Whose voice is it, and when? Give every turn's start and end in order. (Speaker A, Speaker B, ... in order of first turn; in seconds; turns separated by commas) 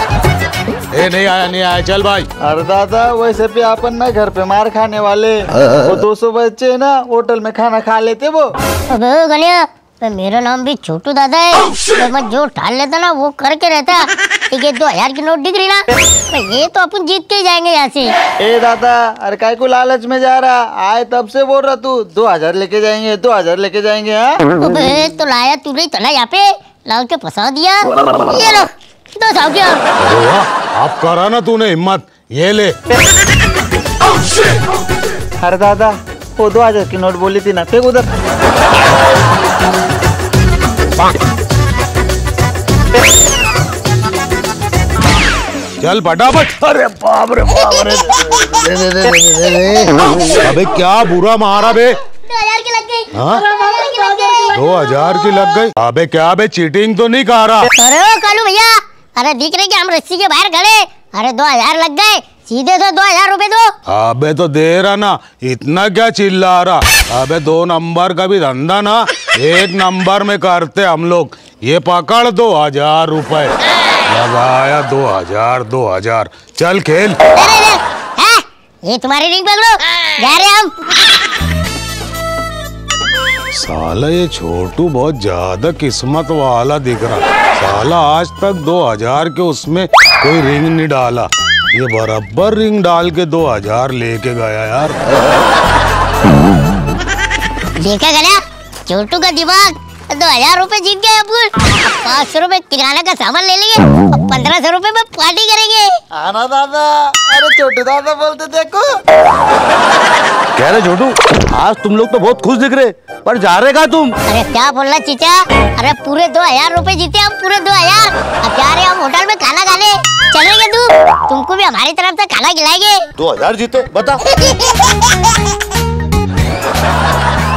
Speaker A: 0.9-2.3, Speaker B: 2.4-8.5, Speaker C: 8.9-18.1, Speaker B: 18.4-24.4, Speaker C: 24.6-29.8, Speaker A: 30.0-32.7, Speaker B: 35.4-38.1, Speaker A: 45.8-48.1, Speaker D: 46.8-47.5, Speaker B: 48.5-49.9, Speaker A: 50.4-52.0, Speaker C: 52.2-54.5, Speaker A: 53.1-53.4, Speaker A: 54.5-57.7, Speaker C: 57.8-63.7, Speaker A: 63.9-73.5, Speaker A: 74.1-77.2, Speaker C: 77.3-80.7, Speaker A: 83.5-95.0, Speaker C: 97.8-105.9, Speaker B: 106.2-108.9, Speaker D: 110.5-114.2, Speaker C: 114.3-123.0, Speaker D: 123.2-124.2